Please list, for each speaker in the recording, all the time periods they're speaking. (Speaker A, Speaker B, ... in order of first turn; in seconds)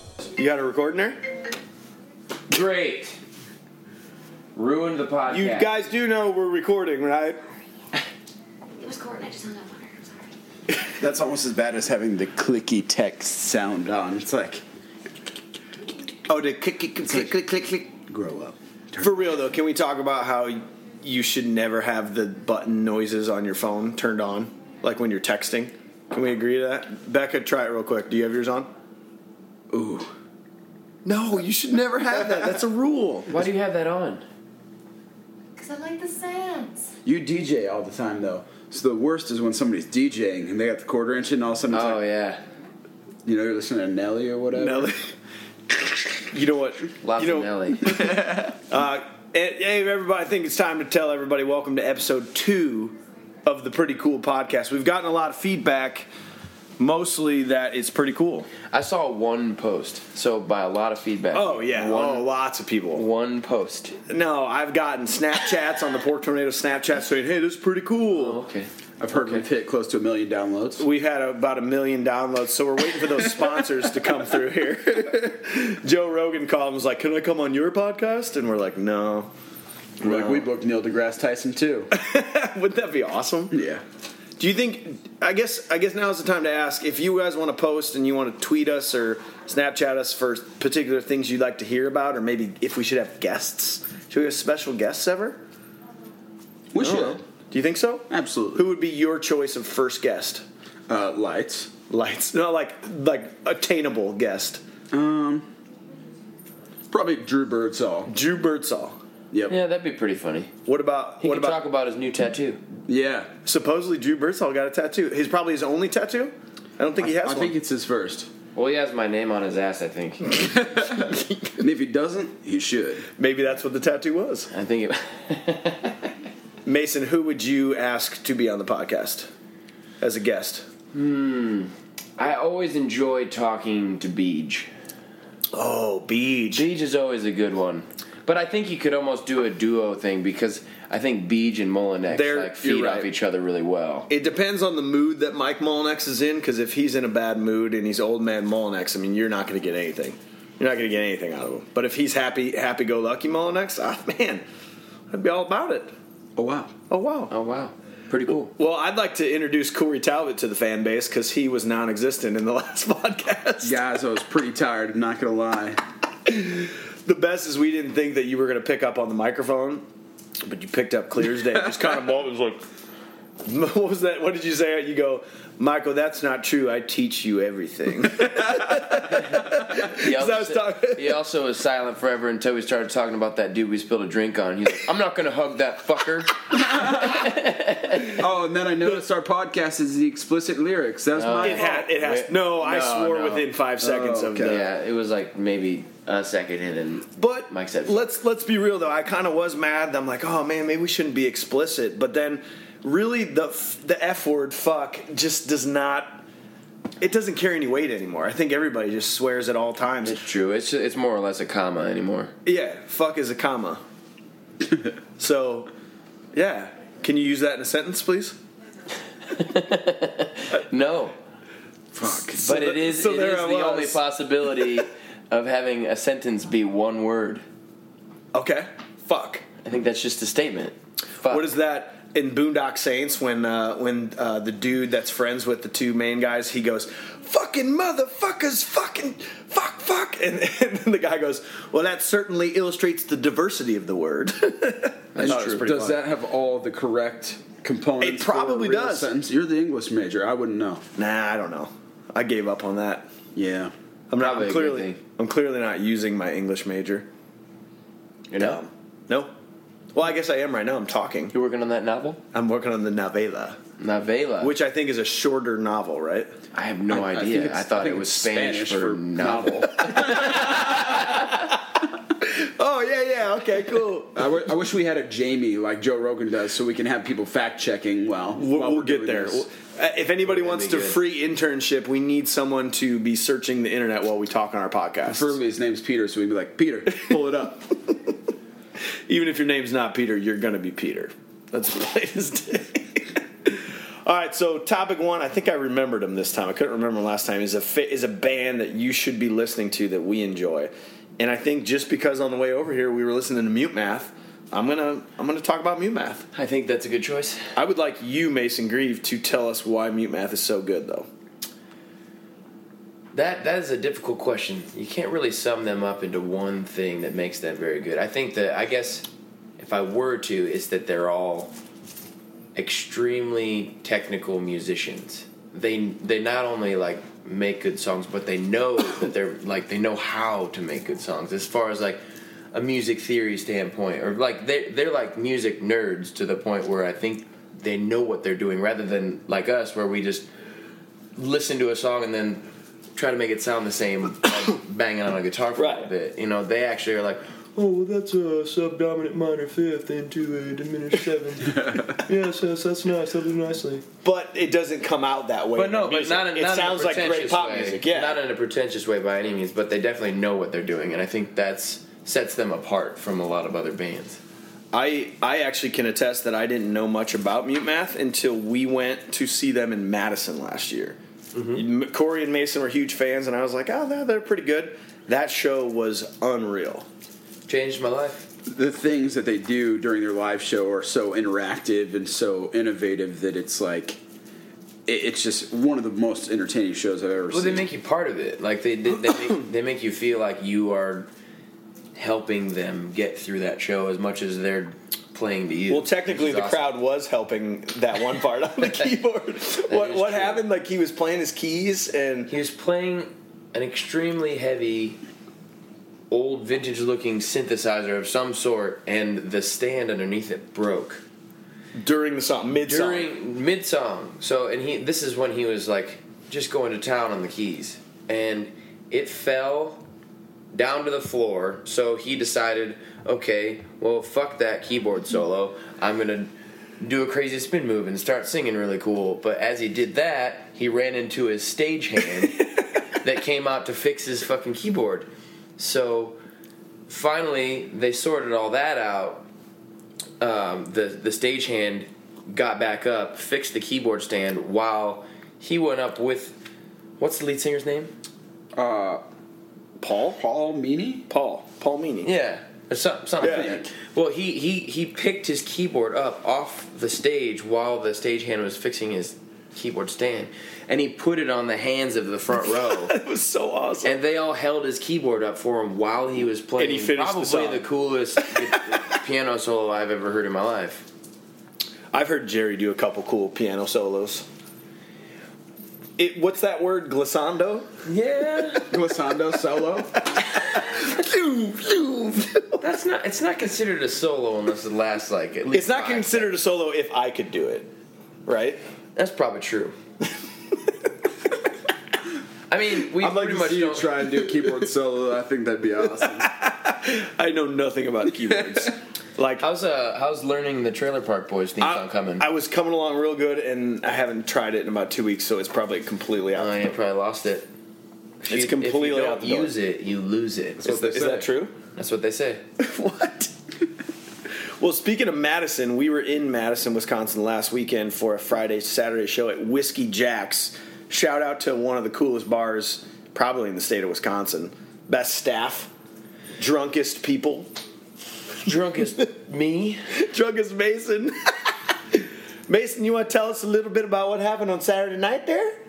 Speaker A: 0.4-1.2, 5.3-7.4, 16.3-17.9, 19.0-28.7, 31.1-33.3, 44.5-45.1, 46.2-56.1, 56.8-58.5, 61.3-63.0, 64.1-68.4, 70.8-79.3, 80.0-80.5, 81.9-83.6, 84.4-95.4, 96.8-100.4, 101.9-104.6, 108.1-109.0, 110.7-111.6, 113.5-117.5, 123.2-124.5, 126.7-129.3, 130.0-130.7, 135.5-136.7, 142.1-143.0, 144.1-154.4, 155.1-155.9, 156.9-157.3, 158.3-163.8, 166.2-169.9, 170.4-172.6, 173.4-181.2, 191.3-194.7, 197.2-206.2, 207.0-210.2, 212.4-213.8, 215.2-215.7, 216.3-218.4, 222.0-224.0, 228.3-229.4, 231.2-246.0, 248.0-249.1, 251.0-253.1, 254.1-257.1, 258.4-259.3, 259.9-261.3, 262.3-263.6, 264.4-266.3, 272.2-274.2, 278.3-285.4, 289.1-306.3, 307.6-311.1, 345.6-345.9, 354.0-358.2, 364.7-371.0, 371.5-376.9, 395.7-402.3, 411.8-413.1, 449.8-450.2, 451.1-452.1, 453.2-453.5, 462.4-464.0, 466.6-467.7, 468.2-468.8, 471.9-474.3, 476.0-477.7, 480.5-482.6, 485.5-487.7, 488.3-488.6, 495.8-499.4, 501.6-506.6, 508.3-509.6, 510.6-511.5, 512.6-513.3, 514.6-525.7, 526.4-527.5, 529.9-535.6
Speaker B: 2.5-3.2, 4.5-5.7, 33.3-34.2, 41.7-42.4, 47.0-48.0, 58.7-62.3, 62.9-64.0, 68.1-69.4, 109.5-110.5, 111.2-112.6, 118.5-120.5, 124.5-126.1, 130.9-134.7, 136.5-144.1, 157.3-158.5, 179.2-188.2, 191.2-192.4, 194.4-198.0, 210.1-212.3, 219.3-221.1, 222.4-227.4, 229.6-231.5, 245.2-245.7, 254.2-255.0, 258.3-258.6, 261.3-262.2, 263.8-264.5, 266.5-270.9, 280.2-281.0, 306.3-307.5, 313.1-319.1, 319.6-321.5, 322.6-332.0, 332.5-340.3, 341.2-342.4, 342.9-353.9, 355.6-364.2, 371.3-371.6, 377.5-378.3, 387.3-391.1, 391.9-396.7, 399.7-400.4, 402.3-405.0, 406.1-411.0, 412.6-419.8, 420.5-436.2, 436.9-439.3, 440.2-446.4, 447.0-447.9, 452.0-463.0, 463.8-470.9, 477.9-478.7, 482.6-486.3, 489.0-489.8, 492.5-494.1, 499.4-502.3, 506.3-507.5, 508.2-511.2, 511.7-512.4, 528.4-529.8
Speaker C: 8.8-10.3, 35.6-36.9
Speaker D: 11.0-14.6, 17.1-19.2, 29.7-30.1, 37.0-42.0, 43.2-44.9, 69.0-70.9, 80.0-81.9, 83.5-83.8, 96.7-97.2, 98.1-98.7, 100.9-101.7, 104.9-105.5, 106.9-108.1, 112.9-113.3, 117.0-118.3, 121.6-123.1, 142.6-143.1, 156.4-156.7, 163.6-165.8, 186.6-187.4, 188.2-191.8, 192.6-194.7, 222.0-222.4, 245.2-250.8, 253.3-253.7, 266.9-271.3, 274.1-279.4, 285.1-287.8, 378.5-384.0, 384.9-387.7, 448.6-449.0, 450.1-451.1, 453.2-453.7, 478.7-480.0, 493.0-496.3, 510.6-511.3